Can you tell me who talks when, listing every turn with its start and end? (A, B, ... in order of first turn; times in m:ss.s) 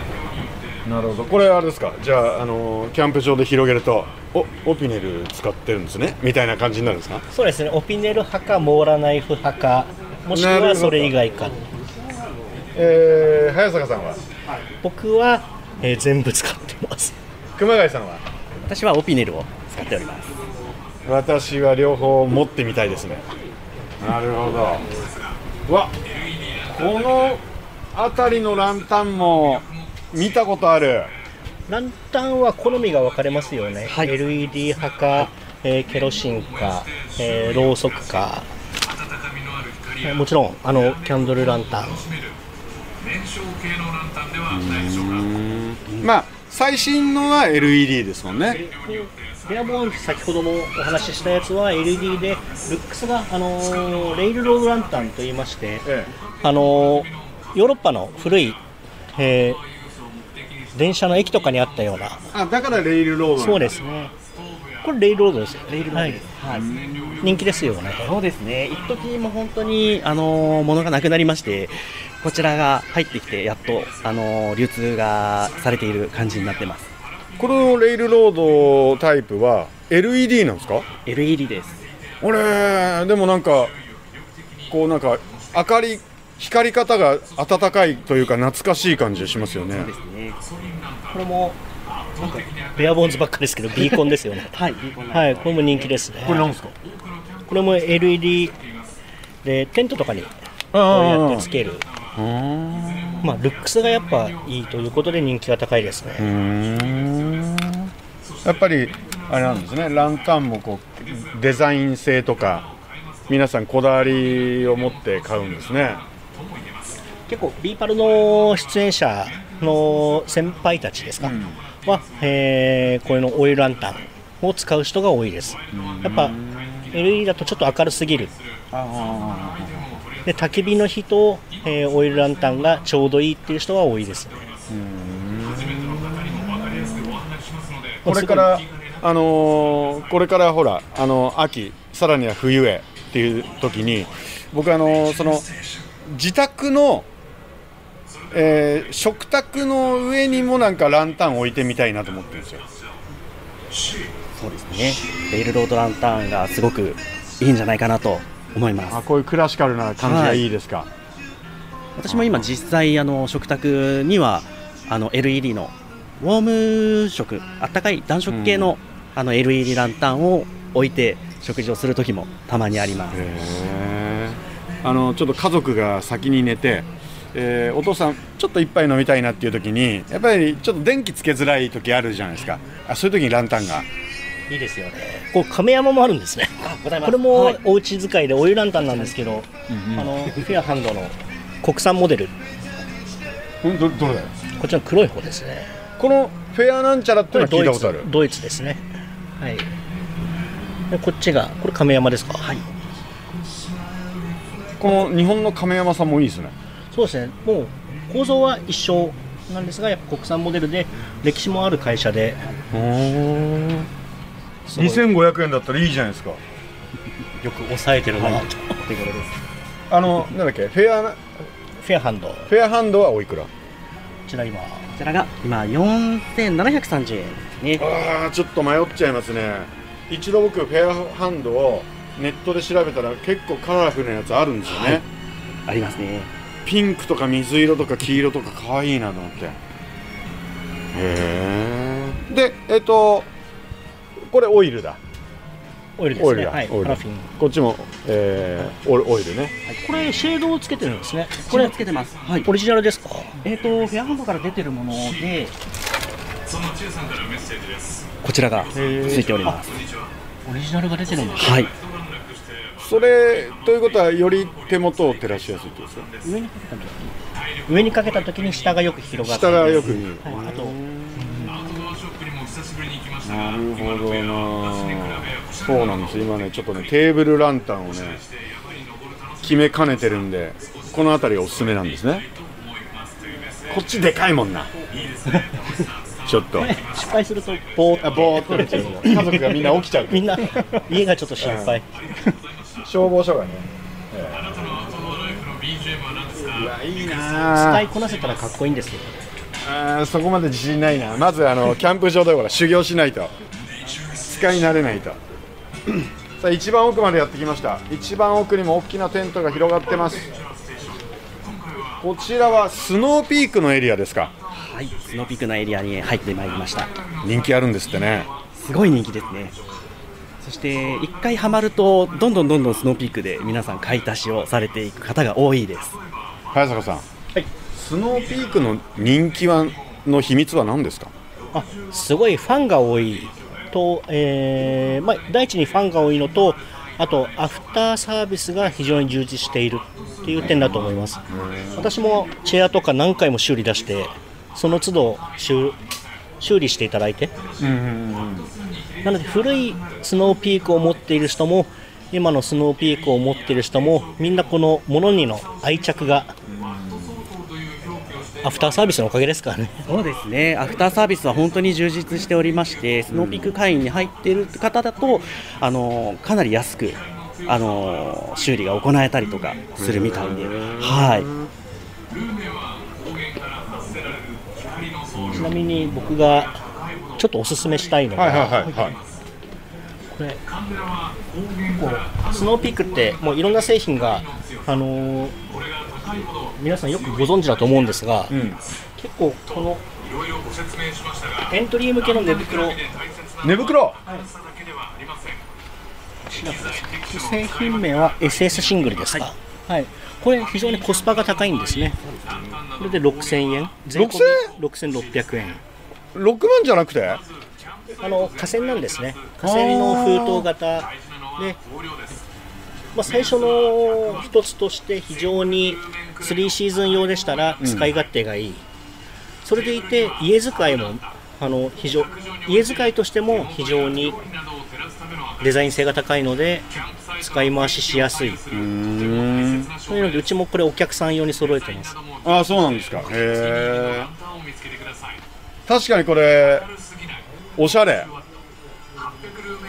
0:00.8-0:07.2 A
0:07.3-0:11.6 B
0:10.3-0:11.2 A
0:12.7-0:14.2 A
0:14.8-0:17.2 B
0:17.6-0:18.2 A
0:18.7-0:20.3 C
0:21.0-0:23.2 A
0:24.0-0:24.9 A
0:25.7-0:25.9 A
0:26.6-0:31.1 A
0:31.7-0:38.5 B
0:40.0-0:42.1 B
0:44.4-0:48.6 A
0:48.5-0:55.9 B
0:55.8-0:56.1 A
0:56.4-0:58.6 B
0:59.1-0:59.6 B
1:00.7-1:02.3 B
1:02.3-1:03.8 A
1:03.4-1:04.1 B
1:04.8-1:06.2 B
1:05.7-1:06.7 C
1:06.5-1:07.3 A
1:07.2-1:08.1 B
1:08.0-1:16.9 C
1:17.4-1:20.9 A
1:21.0-1:21.8 C
1:22.2-1:23.7 A
1:24.7-1:29.9 A
1:29.7-1:30.4 C
1:31.1-1:31.6 B
1:32.2-1:34.5 B
1:34.5-1:36.0 C
1:35.1-1:36.5 B
1:36.2-1:36.7 A
1:37.5-1:38.6 B
1:39.4-1:40.3 B
1:40.7-1:41.5 A
1:40.9-1:41.9 B
1:42.1-1:43.3 A
1:43.2-1:46.3 B
1:46.2-1:47.9 A
1:48.4-1:52.7 A
1:53.3-1:56.0 A
1:57.3-2:06.4 B
2:01.2-2:01.6 A
2:05.7-2:06.9 A
2:06.9-2:08.3 B
2:08.7-2:10.0 A
2:10.2-2:14.5 B
2:14.7-2:17.2 A
2:18.0-2:25.5 A
2:18.0-2:18.6 B
2:26.0-2:27.1 A
2:28.3-2:32.6 A
2:34.4-2:39.0 C
2:38.9-2:40.9 A
2:40.0-2:40.4 C
2:42.0-2:53.2 C
2:42.1-2:42.5 A
2:48.3-2:48.7 A
2:53.1-3:03.9 A
3:04.5-3:12.4 B
3:06.6-3:07.6 C
3:08.9-3:09.3 C
3:09.7-3:10.2 A
3:13.6-3:14.3 A
3:14.6-3:15.7 B
3:16.0-3:18.1 A
3:17.3-3:18.8 B
3:19.4-3:19.7 B
3:20.9-3:22.5 B
3:24.8-3:26.5 A
3:26.9-3:32.4 B
3:32.7-3:33.9 A
3:34.7-3:35.0 B
3:34.8-3:36.4 A
3:37.4-3:38.8 B
3:38.2-3:39.4 C
3:39.9-3:41.2 A
3:41.8-3:42.5 B
3:42.5-3:43.5 A
3:44.3-3:44.9 B
3:45.0-3:47.8 C
3:47.8-3:55.0 A
3:54.7-3:55.0 C
3:55.7-3:56.3 C
3:56.6-3:59.6 A
4:00.9-4:03.3 A
4:04.2-4:05.0 A
4:06.0-4:07.3 B
4:06.2-4:09.6 A
4:09.8-4:11.8 B
4:11.5-4:12.5 C
4:12.4-4:13.4 B
4:13.4-4:15.6 C
4:18.2-4:19.8 C
4:18.7-4:19.6 B
4:20.5-4:21.7 B
4:21.4-4:21.7 C
4:22.8-4:26.1 A
4:26.2-4:27.1 B
4:27.7-4:31.6 B
4:29.2-4:31.7 A
4:33.2-4:38.2 A
4:39.4-4:42.2 A
4:43.7-4:44.7 A
4:45.3-4:45.8 B
4:46.2-4:46.8 A
4:46.6-4:51.9 B
4:48.0-4:50.6 A
4:51.4-4:51.8 A
4:52.8-4:55.4 A
4:56.4-4:57.9 A
4:57.5-4:59.2 B
4:59.6-5:03.3 A
5:04.0-5:05.2 A
5:06.4-5:10.4 A
5:12.0-5:14.3 A
5:14.5-5:17.0 C
5:17.2-5:18.3 A
5:18.5-5:19.6 C
5:20.4-5:26.0 C
5:26.5-5:27.0 A
5:27.7-5:31.1 A
5:31.5-5:41.2 B
5:40.3-5:41.9 A
5:41.7-5:45.8 B
5:46.4-5:47.3 B
5:47.6-5:48.5 A
5:49.0-5:56.4 B
5:56.5-5:57.3 A
5:58.4-5:59.9 B
5:59.9-6:11.3 C
6:03.1-6:03.5 A
6:09.8-6:11.5 A
6:15.1-6:15.6 A
6:15.3-6:16.6 B
6:17.2-6:19.0 B
6:18.1-6:19.0 A
6:20.1-6:20.4 B
6:21.6-6:25.4 B
6:26.2-6:28.4 B
6:28.3-6:28.6 A
6:29.0-6:29.8 B
6:31.4-6:32.9 B
6:33.4-6:34.0 A
6:36.3-6:42.0 B
6:42.1-6:42.5 C
6:42.7-6:45.6 B
6:43.9-6:44.5 A
6:46.1-6:47.2 A
6:48.0-6:51.6 B
6:49.4-6:50.5 A
6:52.9-6:58.7 B
6:57.6-6:57.9 A
6:59.4-7:04.2 B
7:05.4-7:08.4 B
7:08.5-7:09.7 A
7:09.9-7:12.0 B
7:12.2-7:14.1 A
7:15.7-7:16.7 A
7:17.6-7:18.1 A